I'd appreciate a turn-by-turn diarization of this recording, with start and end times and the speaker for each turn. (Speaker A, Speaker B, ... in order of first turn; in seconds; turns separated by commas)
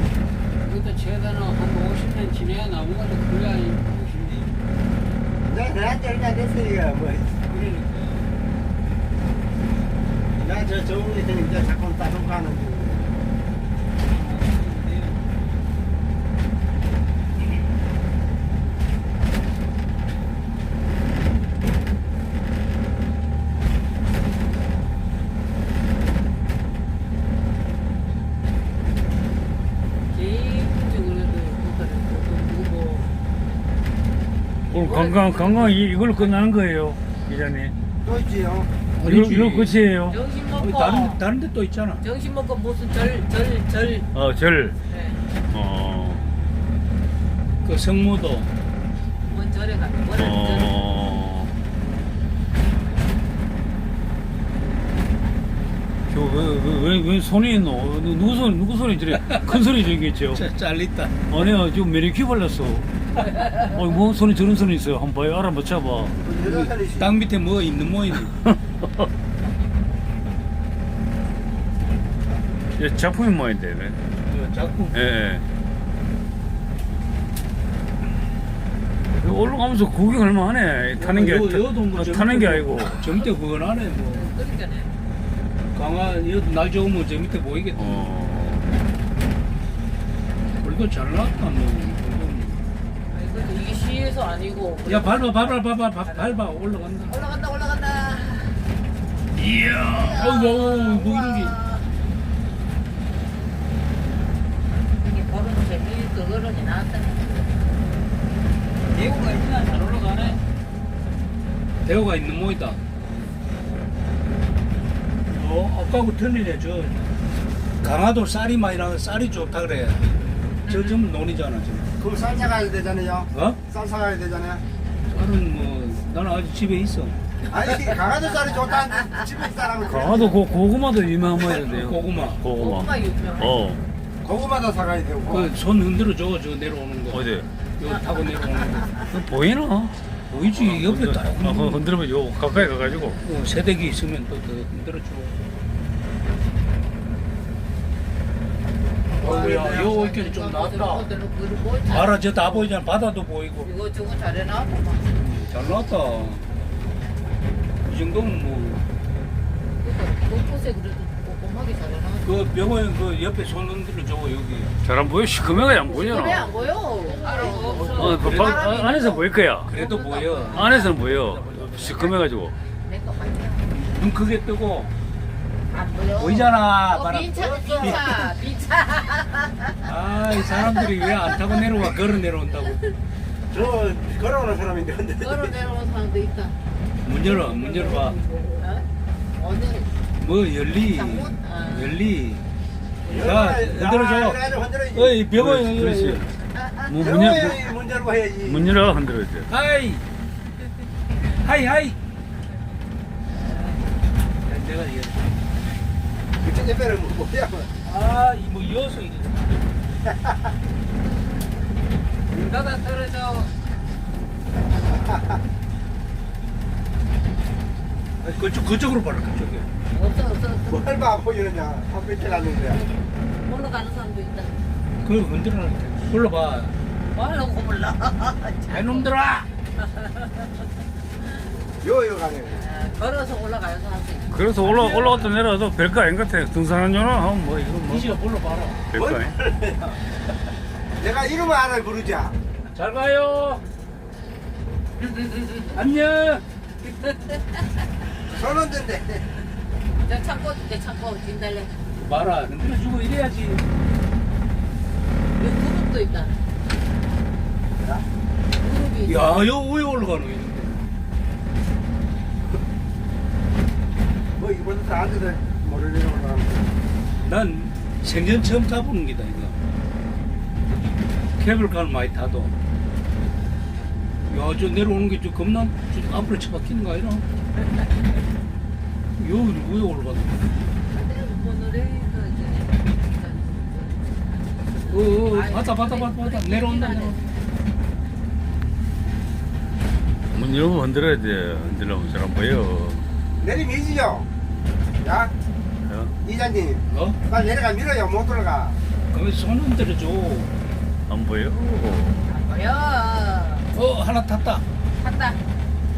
Speaker A: 0.6-4.6, Speaker B: 5.5-7.5, Speaker A: 7.5-8.3, Speaker B: 10.3-13.2, Speaker A: 14.0-15.4, Speaker C: 30.1-33.1, Speaker D: 34.7-37.8, Speaker C: 34.7-36.4, Speaker B: 38.0-38.7, Speaker E: 39.0-39.8, Speaker D: 39.0-40.2, Speaker C: 40.1-41.2, Speaker E: 40.5-42.0, Speaker C: 42.0-44.1, Speaker D: 44.1-44.8, Speaker C: 44.9-45.2, Speaker D: 45.5-46.3, Speaker E: 47.6-48.5, Speaker C: 49.2-51.0, Speaker D: 50.2-51.5, Speaker D: 56.1-60.5, Speaker E: 59.1-59.6, Speaker E: 60.3-61.2, Speaker D: 61.3-62.9, Speaker D: 63.6-66.2, Speaker B: 66.2-67.1, Speaker E: 66.4-68.3, Speaker D: 68.2-69.1, Speaker D: 72.8-74.0, Speaker E: 74.2-75.0, Speaker D: 74.9-75.5, Speaker D: 79.2-83.2, Speaker E: 81.0-84.2, Speaker C: 84.1-84.9, Speaker E: 85.7-88.1, Speaker D: 87.8-88.8, Speaker E: 90.6-92.6, Speaker C: 93.1-96.5, Speaker E: 94.9-97.2, Speaker C: 97.1-98.7, Speaker E: 99.3-101.5, Speaker C: 99.9-101.9, Speaker C: 105.0-107.6, Speaker A: 108.9-110.4, Speaker E: 111.8-112.8, Speaker E: 115.3-117.1, Speaker E: 117.8-120.1, Speaker E: 120.7-121.9, Speaker C: 120.7-121.0, Speaker B: 122.0-124.6, Speaker E: 125.1-127.2, Speaker B: 127.5-130.4, Speaker C: 128.9-129.2, Speaker D: 129.9-133.8, Speaker E: 131.6-132.4, Speaker C: 132.6-133.6, Speaker B: 134.2-135.5, Speaker E: 135.3-137.2, Speaker D: 137.1-137.5, Speaker E: 137.8-138.9, Speaker C: 137.9-139.1, Speaker D: 139.1-140.0, Speaker E: 140.3-141.8, Speaker D: 140.5-143.2, Speaker E: 143.2-145.4, Speaker C: 149.1-152.7, Speaker E: 149.2-151.1, Speaker E: 151.9-153.7, Speaker C: 153.6-155.1, Speaker E: 155.1-156.4, Speaker E: 157.8-158.8, Speaker C: 159.8-162.4, Speaker E: 162.2-164.7, Speaker D: 164.8-166.5, Speaker C: 165.7-170.9, Speaker A: 167.2-168.2, Speaker E: 167.6-168.8, Speaker D: 168.0-169.7, Speaker E: 169.7-172.2, Speaker D: 170.5-172.6, Speaker C: 172.8-173.7, Speaker E: 173.7-174.9, Speaker C: 175.7-179.9, Speaker E: 176.2-178.2, Speaker B: 177.4-178.1, Speaker E: 179.8-182.8, Speaker C: 180.5-181.3, Speaker B: 183.5-185.6, Speaker C: 185.2-186.6, Speaker E: 187.0-188.2, Speaker C: 187.2-189.9, Speaker E: 190.2-192.4, Speaker C: 190.9-192.0, Speaker C: 193.0-193.4, Speaker B: 193.1-195.2, Speaker E: 193.1-194.4, Speaker E: 194.9-196.3, Speaker D: 195.4-196.3, Speaker C: 196.6-197.0, Speaker D: 196.9-197.6, Speaker B: 197.0-198.8, Speaker D: 198.5-199.5, Speaker E: 199.5-200.0, Speaker E: 201.4-202.0, Speaker E: 204.4-205.3, Speaker B: 206.4-207.7, Speaker E: 207.8-209.4, Speaker B: 210.1-210.3, Speaker A: 212.3-213.5, Speaker B: 214.8-215.3, Speaker E: 218.2-219.7, Speaker C: 219.9-220.8, Speaker B: 220.7-222.8, Speaker C: 222.4-224.6, Speaker E: 225.0-226.8, Speaker C: 227.1-229.1, Speaker E: 228.7-229.5, Speaker C: 229.8-230.7, Speaker B: 231.8-232.6, Speaker C: 232.6-234.4, Speaker D: 234.3-238.2, Speaker E: 234.6-235.3, Speaker E: 237.9-238.8, Speaker D: 238.9-239.3, Speaker B: 238.9-240.0, Speaker B: 241.0-242.4, Speaker E: 242.7-243.6, Speaker C: 245.0-245.8, Speaker E: 245.7-246.4, Speaker C: 246.8-247.6, Speaker B: 248.3-249.3, Speaker C: 250.0-251.7, Speaker E: 251.9-253.6, Speaker C: 255.3-256.4, Speaker B: 257.8-258.1, Speaker C: 258.5-259.5, Speaker E: 259.1-260.8, Speaker B: 264.4-266.8, Speaker E: 267.2-269.6, Speaker E: 271.4-272.5, Speaker E: 274.3-277.2, Speaker E: 279.2-280.5, Speaker C: 280.9-287.4, Speaker E: 284.9-287.3, Speaker D: 290.3-293.1, Speaker B: 293.4-294.3, Speaker B: 295.0-295.3, Speaker D: 295.9-296.1, Speaker B: 296.2-298.8, Speaker E: 296.9-297.2, Speaker E: 299.1-300.5, Speaker D: 301.1-302.2, Speaker C: 302.3-303.7, Speaker E: 303.7-304.6, Speaker C: 305.0-305.4